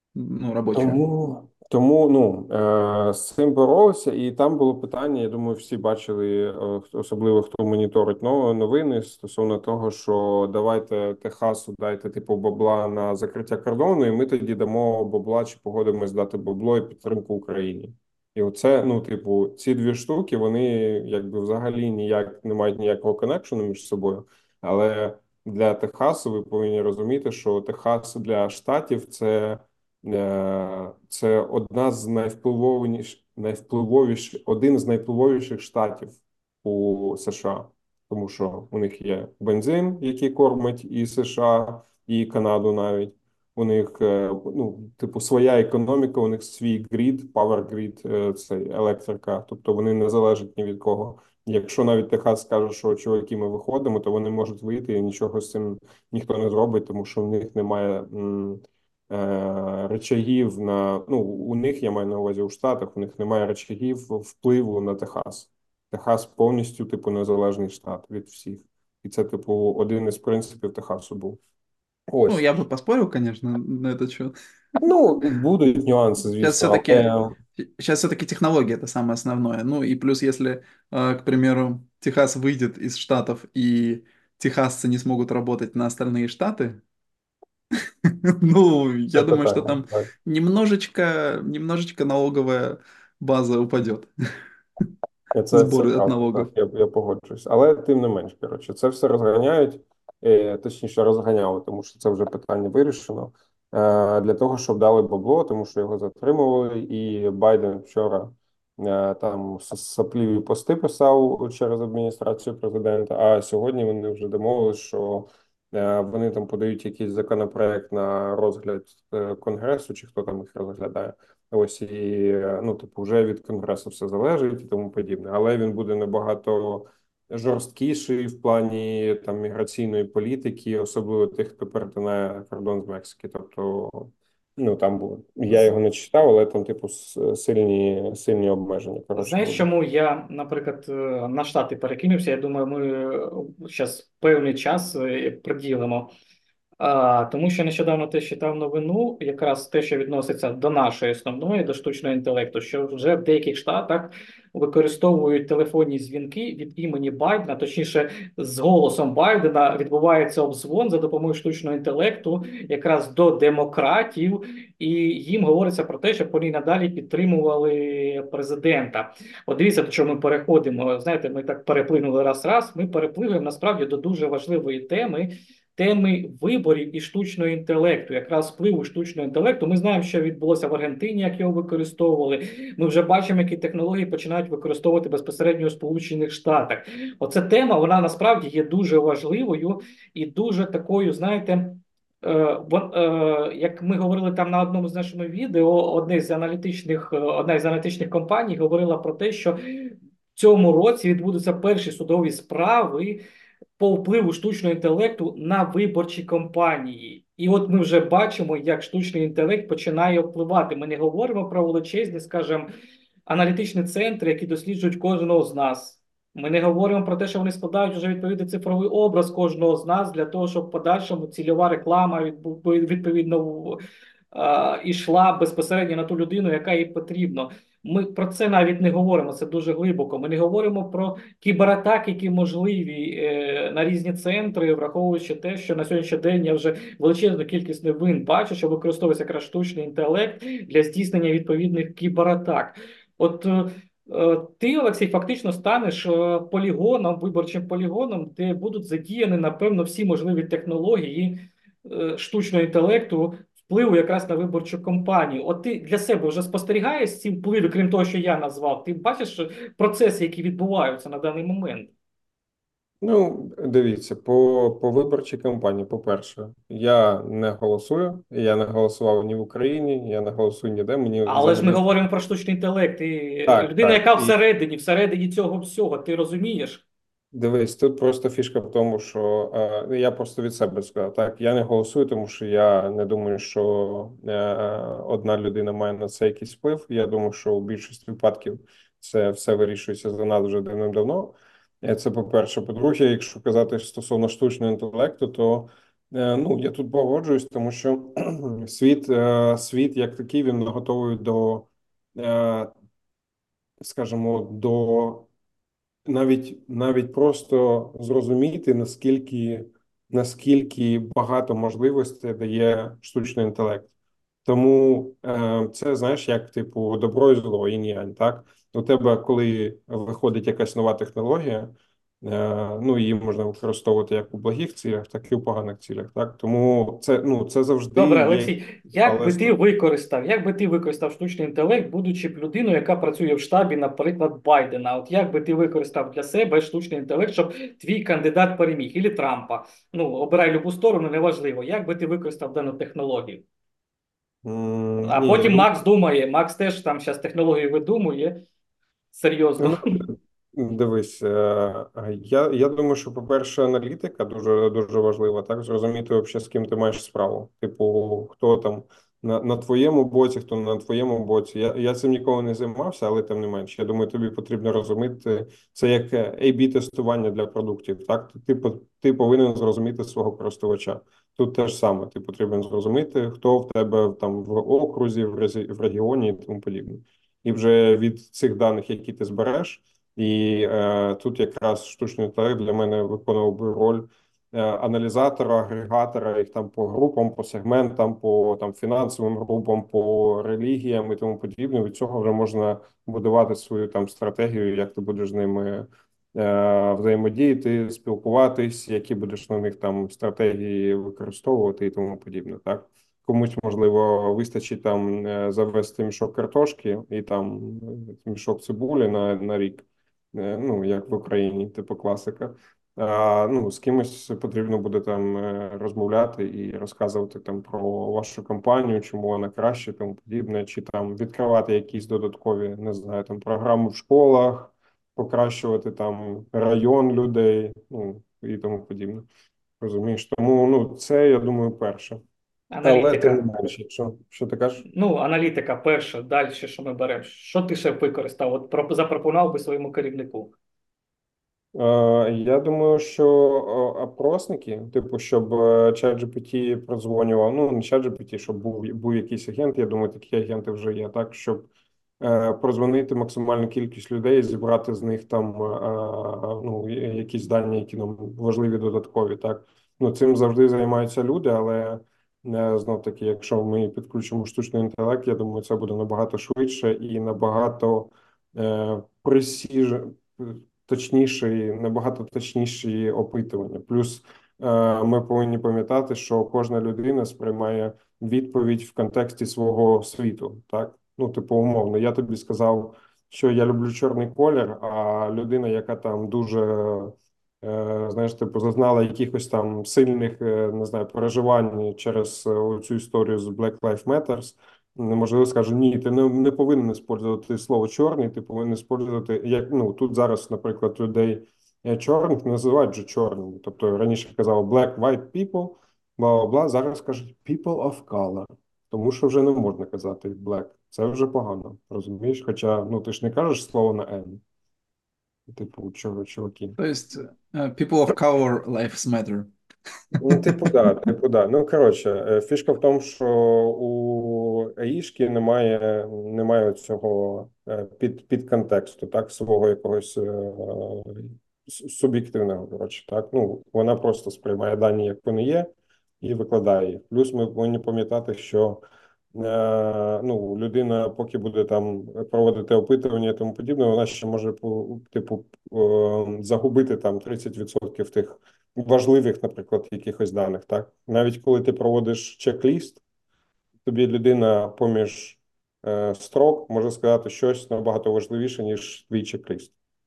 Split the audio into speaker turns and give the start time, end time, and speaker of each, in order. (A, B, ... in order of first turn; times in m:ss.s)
0:00.2-0:01.0 A
0:00.7-1:11.4 B
1:12.1-1:12.4 B
1:12.3-1:14.3 A
1:14.8-1:17.4 B
1:16.4-1:26.8 A
1:28.1-1:34.1 A
1:29.2-1:30.1 B
1:35.3-2:19.7 B
1:35.5-1:36.5 A
2:15.5-2:15.7 C
2:19.2-2:26.1 C
2:26.8-3:23.2 C
3:23.8-3:32.7 C
3:33.3-3:43.8 C
3:44.3-4:21.9 C
4:23.0-4:31.8 B
4:31.3-4:36.8 C
4:33.5-4:34.4 B
4:37.3-5:02.7 B
5:03.8-5:05.3 B
5:06.1-5:13.9 B
5:14.4-5:29.6 B
5:28.0-5:43.4 C
5:44.4-5:45.7 B
5:45.0-5:48.4 C
5:49.1-5:50.0 C
5:49.6-7:09.3 B
7:09.8-7:12.2 B
7:12.7-7:13.7 C
7:12.8-7:14.8 B
7:15.0-7:20.5 C
7:21.7-7:31.7 B
7:32.2-8:34.4 B
8:35.5-8:36.8 B
8:36.8-8:39.5 A
8:40.2-8:55.7 B
8:56.2-8:58.8 B
8:59.4-9:13.0 B
9:13.8-9:19.7 B